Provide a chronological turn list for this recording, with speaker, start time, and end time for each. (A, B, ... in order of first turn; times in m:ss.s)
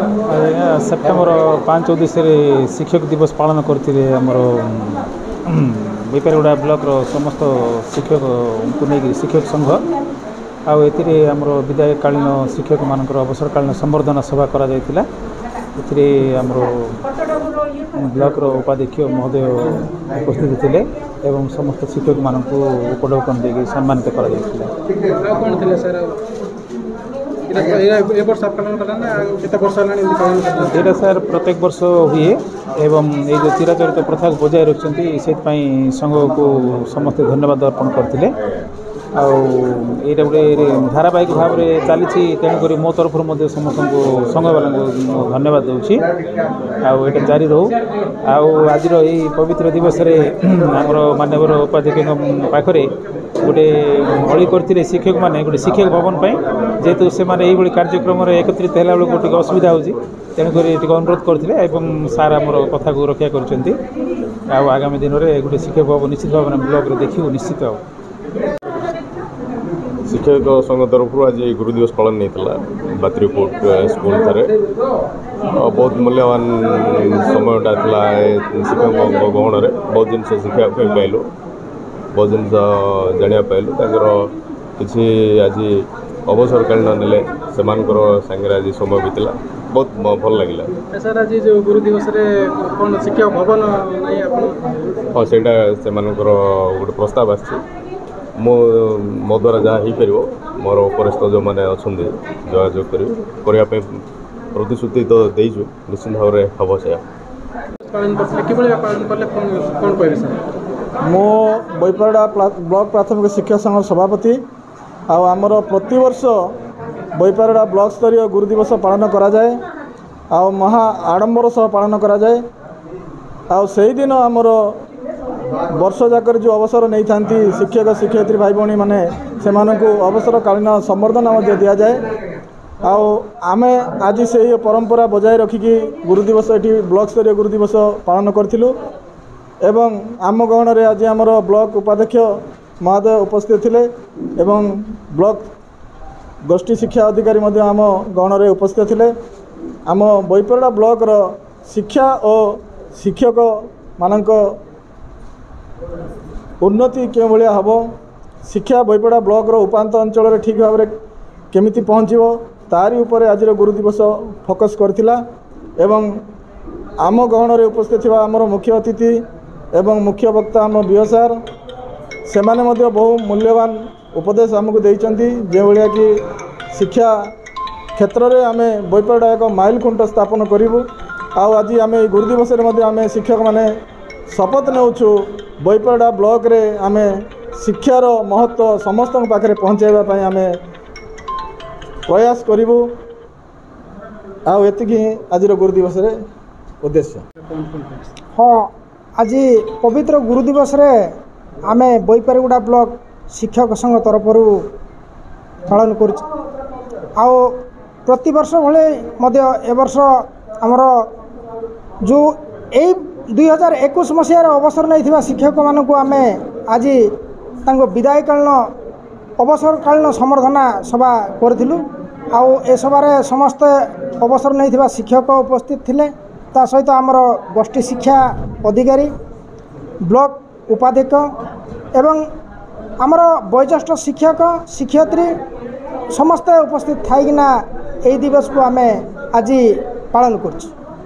0:00.3-0:09.8 A
0:10.7-0:15.0 A
0:15.8-0:17.0 A
0:17.9-0:24.7 A
0:25.2-0:26.2 B
0:27.5-0:31.0 B
0:30.7-0:38.4 A
0:39.2-0:46.0 A
0:46.8-0:47.7 A
0:48.2-0:52.9 A
0:53.4-1:03.8 A
1:04.5-1:07.8 A
1:10.1-1:14.5 C
1:15.5-1:21.3 C
1:22.1-1:30.7 C
1:30.9-1:34.7 B
1:35.1-1:37.6 C
1:38.4-1:44.0 C
1:44.5-1:47.0 C
1:47.9-1:50.4 B
1:51.0-1:54.4 D
1:55.1-1:56.5 D
1:57.2-1:59.6 D
2:00.3-2:02.4 D
2:03.5-2:04.8 D
2:05.8-2:12.0 D
2:12.8-2:18.8 D
2:19.7-2:22.3 D
2:22.8-2:23.9 D
2:24.4-2:25.5 D
2:26.5-2:29.1 D
2:29.9-2:34.6 D
2:36.6-2:37.8 D
2:38.5-2:40.9 D
2:41.5-2:45.2 D
2:45.8-2:46.1 D
2:47.0-2:49.2 D
2:49.8-2:51.4 D
2:52.3-2:56.2 D
2:56.7-2:57.3 D
2:58.0-3:00.8 D
3:01.4-3:03.7 D
3:04.3-3:10.6 D
3:12.1-3:12.9 D
3:14.5-3:16.2 D
3:16.8-3:17.2 D
3:17.4-3:18.0 B
3:18.4-3:21.1 E
3:21.7-3:24.6 E
3:25.7-3:26.2 E
3:27.2-3:31.0 E
3:32.0-3:37.0 E
3:37.7-3:38.6 E
3:39.4-3:49.1 E
3:50.1-3:51.3 E
3:52.0-3:52.2 E
3:53.0-3:55.3 E
3:56.1-3:57.5 E
3:58.1-4:00.7 E